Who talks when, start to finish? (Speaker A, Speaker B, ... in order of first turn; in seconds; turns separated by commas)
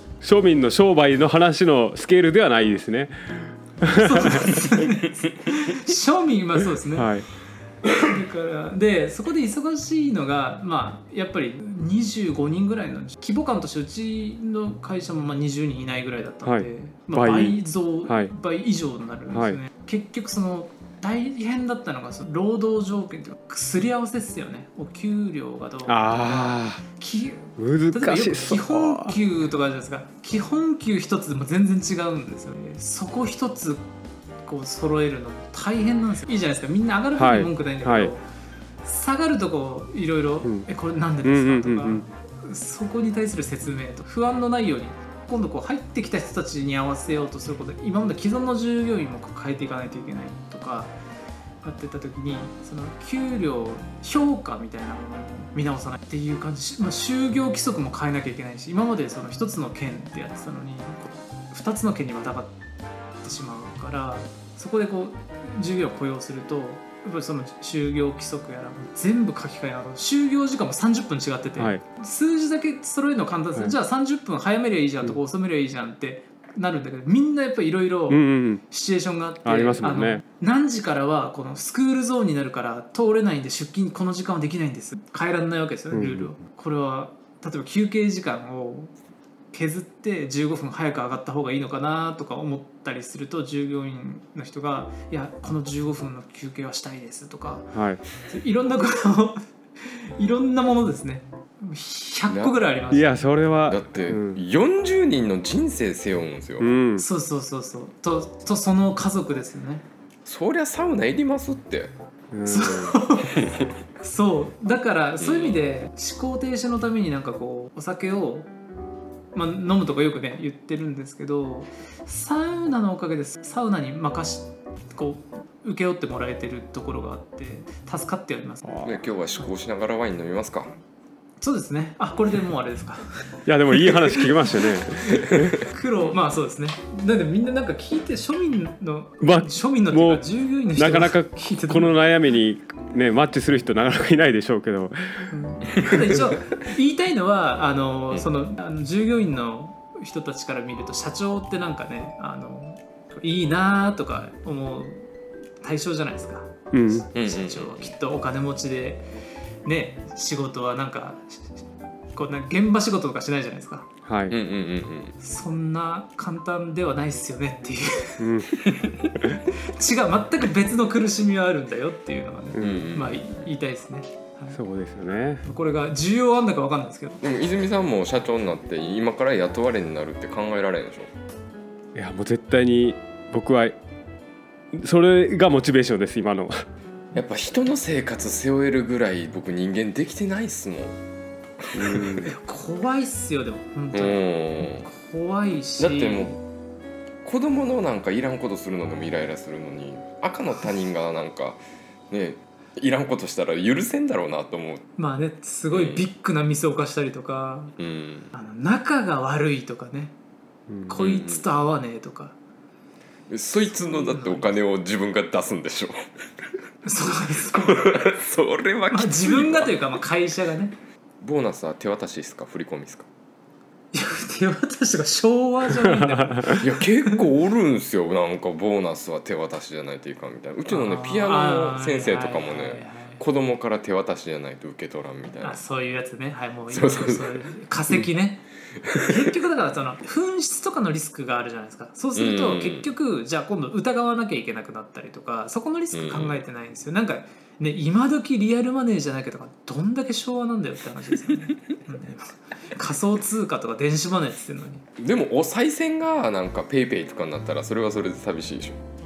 Speaker A: 0.2-4.7, Speaker B: 3.8-7.1, Speaker A: 6.9-7.2, Speaker B: 7.8-33.9, Speaker A: 16.4-18.3, Speaker A: 19.3-19.6, Speaker A: 25.9-26.8, Speaker A: 27.6-29.2, Speaker B: 34.4-38.2, Speaker A: 37.1-38.1, Speaker B: 38.8-50.9, Speaker A: 41.2-42.0, Speaker B: 51.6-62.5, Speaker B: 63.2-88.9, Speaker A: 78.1-78.6, Speaker A: 79.4-80.2, Speaker A: 85.9-86.3, Speaker B: 89.5-103.2, Speaker A: 97.7-98.0, Speaker C: 102.3-102.5, Speaker A: 102.9-104.4, Speaker C: 103.7-106.7, Speaker A: 106.6-107.0, Speaker B: 107.0-109.8, Speaker C: 110.2-111.9, Speaker A: 112.3-112.9, Speaker B: 112.4-113.5, Speaker B: 114.0-118.5, Speaker C: 115.2-115.6, Speaker B: 119.3-128.6, Speaker A: 128.7-129.0, Speaker C: 128.8-130.7, Speaker B: 131.4-133.1, Speaker A: 133.5-135.5, Speaker B: 135.6-141.9, Speaker A: 139.2-140.2, Speaker A: 140.8-145.3, Speaker B: 145.3-155.1, Speaker B: 155.6-159.0, Speaker A: 156.7-157.1, Speaker C: 157.1-157.9, Speaker B: 159.6-161.4, Speaker B: 162.1-163.9, Speaker A: 164.1-164.3, Speaker C: 164.3-165.1, Speaker B: 165.2-168.3, Speaker A: 168.2-168.6, Speaker C: 168.7-169.0, Speaker B: 169.6-174.6, Speaker A: 172.5-172.9, Speaker C: 172.6-173.2, Speaker A: 174.5-175.4, Speaker B: 175.4-177.2, Speaker C: 177.2-181.1, Speaker A: 181.9-183.8, Speaker A: 184.7-186.6, Speaker C: 187.1-190.9, Speaker C: 191.7-192.2, Speaker A: 191.7-192.3, Speaker B: 192.2-196.4, Speaker C: 193.9-194.9, Speaker C: 195.8-196.4, Speaker C: 197.2-201.6, Speaker C: 202.1-204.8, Speaker B: 205.0-207.7, Speaker C: 205.7-206.1, Speaker C: 207.8-208.3, Speaker B: 208.3-210.1, Speaker B: 210.9-212.3, Speaker C: 210.9-211.4, Speaker C: 213.3-215.9, Speaker B: 213.6-214.5, Speaker B: 216.8-217.8, Speaker C: 217.5-220.0, Speaker B: 218.9-220.7, Speaker C: 221.2-223.1, Speaker B: 223.9-227.2, Speaker C: 226.5-235.6, Speaker B: 230.7-233.2, Speaker B: 235.4-238.4, Speaker C: 236.7-237.4, Speaker C: 238.8-239.3, Speaker B: 238.9-254.8, Speaker C: 242.2-242.9, Speaker C: 245.9-246.4, Speaker C: 255.0-258.8